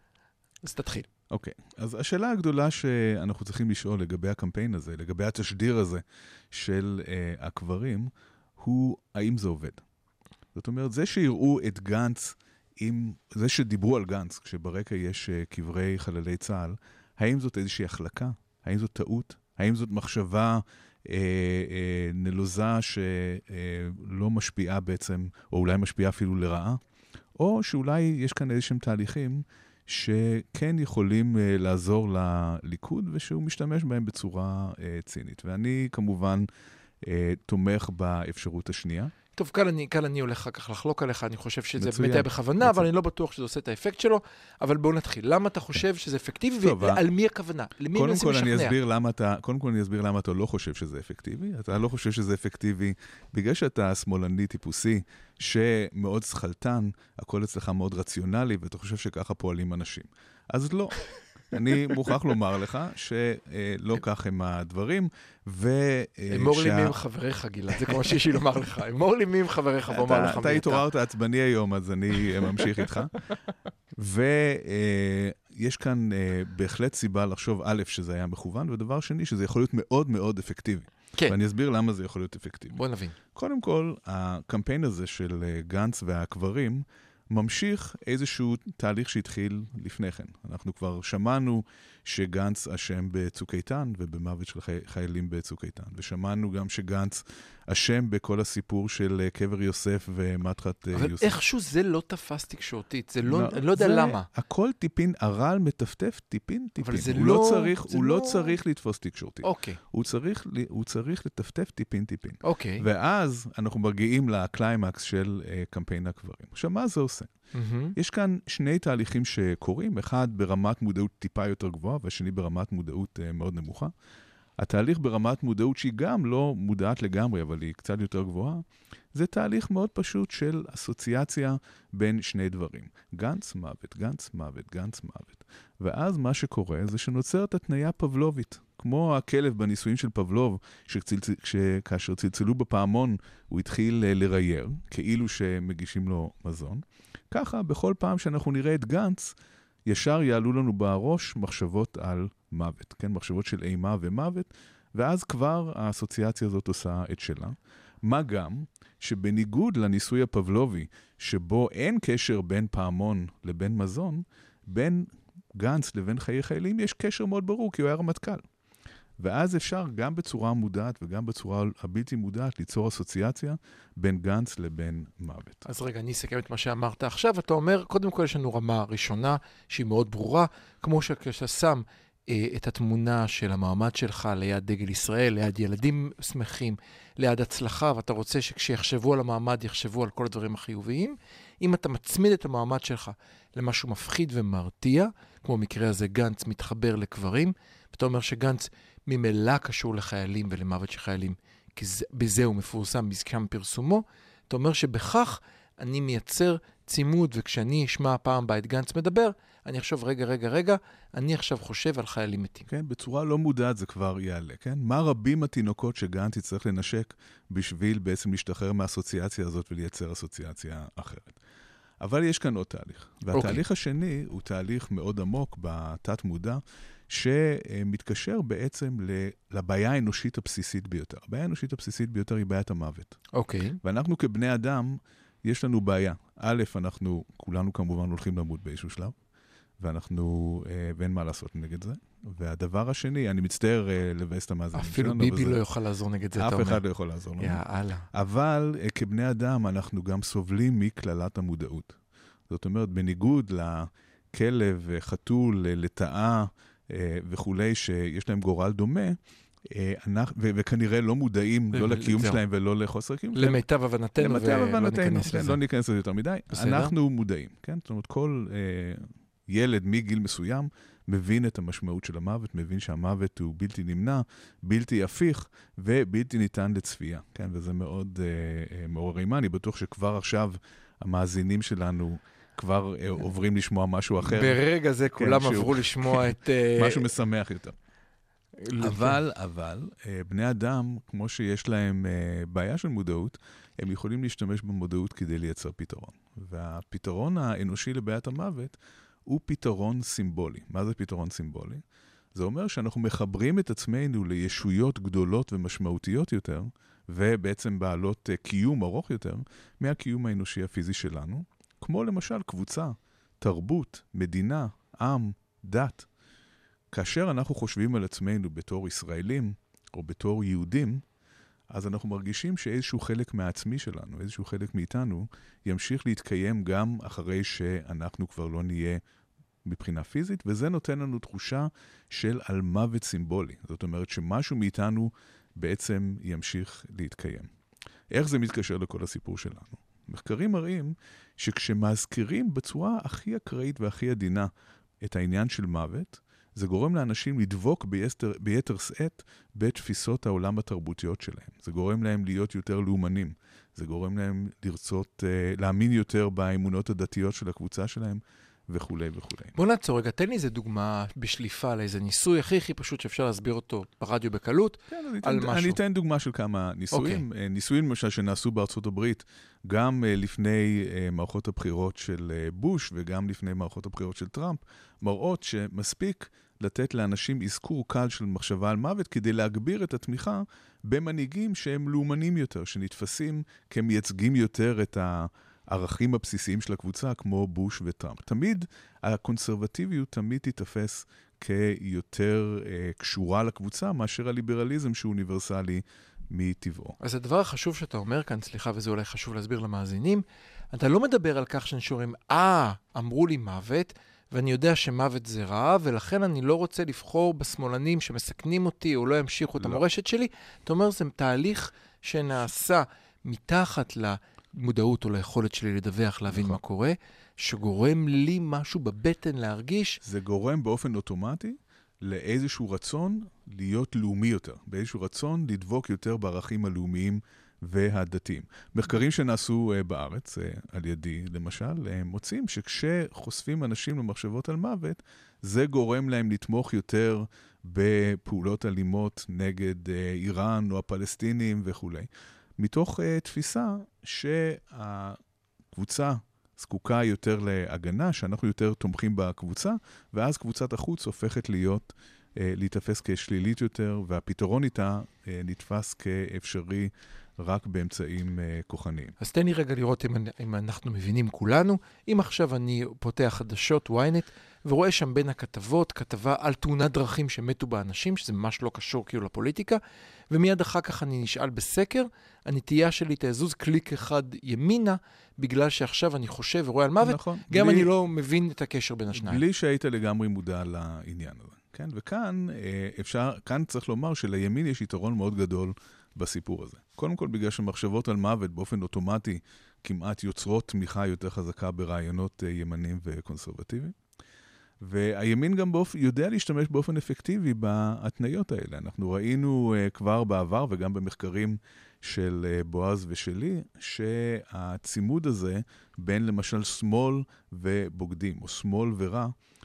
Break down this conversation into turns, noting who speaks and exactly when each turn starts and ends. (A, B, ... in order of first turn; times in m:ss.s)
0:00.6-0:01.1 A
0:01.3-0:09.8 B
0:10.6-0:26.8 B
0:27.4-0:36.5 B
0:37.0-0:39.1 B
0:39.4-0:48.8 A
0:41.8-0:42.9 B
0:46.6-0:47.0 B
0:47.9-1:07.0 B
1:06.3-1:10.9 A
1:09.9-1:13.1 B
1:14.0-1:22.8 B
1:22.7-1:23.2 A
1:23.4-1:41.4 B
1:40.9-1:44.3 A
1:43.2-1:57.3 B
1:46.8-1:48.6 A
1:49.4-1:49.8 A
1:52.4-1:52.9 A
1:57.5-1:58.0 A
1:58.0-2:03.9 B
2:04.6-2:29.4 B
2:29.9-2:48.4 B
2:49.2-2:55.6 B
2:55.6-3:32.7 A
3:32.7-3:41.4 B
3:42.0-3:53.2 B
3:43.3-3:43.6 A
3:53.3-3:53.8 A
3:53.8-3:59.1 B
3:59.8-4:05.6 B
4:04.7-4:06.8 A
4:06.4-4:07.6 B
4:07.4-4:08.1 A
4:08.1-4:12.0 B
4:12.5-4:23.6 B
4:21.7-4:22.4 A
4:23.4-4:25.6 A
4:24.2-4:44.6 B
4:26.5-4:26.9 A
4:44.2-4:47.1 A
4:45.2-4:47.8 B
4:48.6-4:49.2 A
4:48.8-5:01.8 B
5:02.4-5:16.1 B
5:16.9-5:21.0 B
5:21.7-5:29.0 B
5:29.6-5:37.5 B
5:38.1-5:44.5 B
5:45.0-5:59.6 B
5:59.6-6:05.8 A
6:04.9-6:37.0 B
6:06.9-6:07.2 A
6:37.0-7:00.0 A
6:56.3-6:56.6 B
7:00.0-7:25.2 B
7:25.7-7:39.2 B
7:39.2-7:49.8 A
7:50.3-7:59.4 A
7:57.0-7:57.9 B
7:59.2-8:14.0 B
8:14.8-8:29.3 B